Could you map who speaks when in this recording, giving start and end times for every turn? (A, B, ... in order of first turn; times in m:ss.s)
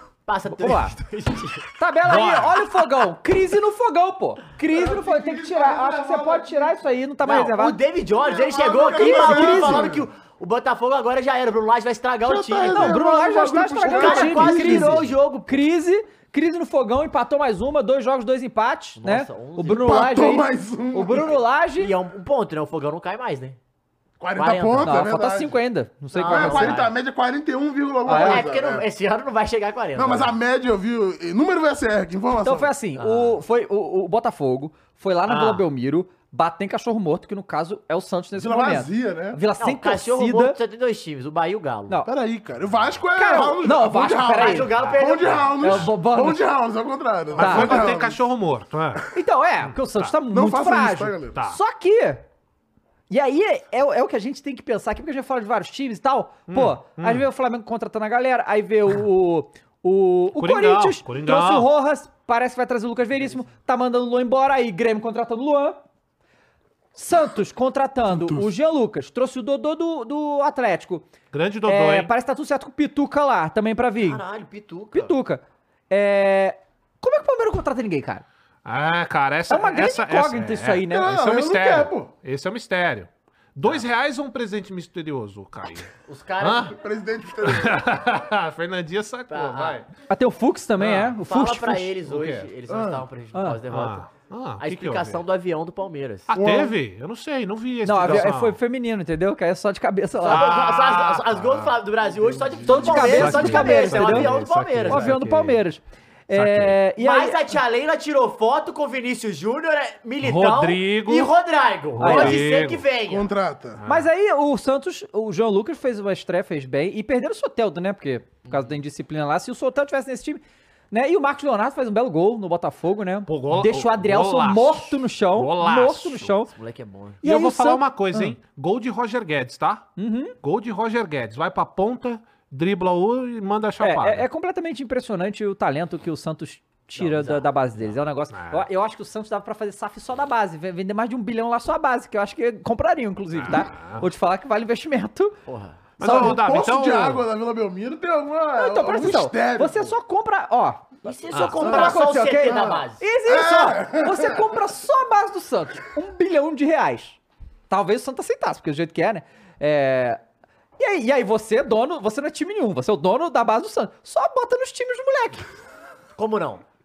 0:00.3-0:01.7 A
0:00.5-0:00.9 B
0:01.8-0:07.8 B
0:02.1-0:02.6 C
0:04.6-0:06.8 D
0:07.2-0:13.0 A
0:08.2-0:10.1 D
0:08.9-0:09.9 B
0:12.2-0:15.2 D
0:12.7-0:21.9 B
0:13.8-0:15.6 A
0:19.0-0:19.8 A
0:19.7-0:21.4 D
0:21.8-0:23.6 A
0:24.2-0:25.6 D
0:24.4-0:25.1 A
0:24.8-0:26.8 B
0:26.1-0:26.9 A
0:26.2-0:28.9 D
0:28.1-0:28.4 B
0:28.1-0:30.3 A
0:30.0-0:32.7 D
0:32.4-0:40.6 B
0:33.0-0:33.4 A
0:35.3-0:35.7 A
0:38.4-0:39.4 D
0:39.6-0:42.0 A
0:42.1-0:48.2 D
0:43.2-0:44.7 B
0:44.4-0:45.8 A
0:45.6-0:46.4 B
0:47.4-0:47.7 B
0:47.4-0:49.1 C
0:49.1-0:52.2 B
0:49.6-0:50.1 C
0:50.3-0:51.4 D
0:53.1-1:05.8 B
0:56.5-0:57.3 C
1:00.4-1:01.7 C
1:07.0-1:11.1 B
1:08.1-1:08.5 D
1:11.3-1:12.1 C
1:11.7-1:14.2 B
1:14.0-1:15.1 A
1:14.9-1:18.2 B
1:18.6-1:26.8 C
1:19.5-1:21.2 B
1:20.9-1:22.1 D
1:26.1-1:26.8 A
1:26.7-1:28.0 D
1:27.4-1:29.9 C
1:29.3-1:29.9 A
1:30.1-1:31.9 B
1:30.8-1:31.2 C
1:31.2-1:34.1 A
1:32.1-1:32.5 C
1:32.7-1:33.1 D
1:33.3-1:33.6 B
1:33.7-1:35.2 C
1:34.6-1:36.3 A
1:36.3-1:38.6 C
1:36.3-1:36.8 D
1:37.8-1:40.5 B
1:40.2-1:45.2 A
1:40.3-1:41.8 C
1:42.1-1:43.3 D
1:42.6-1:44.4 B
1:42.9-1:45.6 C
1:44.9-1:47.4 B
1:46.3-1:46.8 C
1:47.0-1:53.3 A
1:50.2-1:51.3 C
1:51.9-1:52.8 C
1:52.0-1:52.4 B
1:53.1-1:53.8 D
1:53.8-1:54.1 C
1:53.9-2:06.5 B
1:58.5-1:58.7 A
2:03.3-2:06.4 C
2:06.5-2:07.2 A
2:07.2-2:08.4 B
2:07.2-2:09.9 C
2:10.0-2:10.4 B
2:10.4-2:14.3 C
2:13.8-2:25.4 B
2:17.0-2:18.0 A
2:18.3-2:18.7 C
2:23.4-2:24.0 C
2:25.5-2:25.9 A
2:26.0-2:27.3 C
2:26.0-2:26.4 B
2:26.0-2:30.0 D
2:28.6-2:37.2 B
2:31.0-2:33.0 A
2:31.3-2:31.6 C
2:31.6-2:34.7 D
2:37.7-2:40.2 B
2:40.8-2:45.5 B
2:46.2-2:46.6 A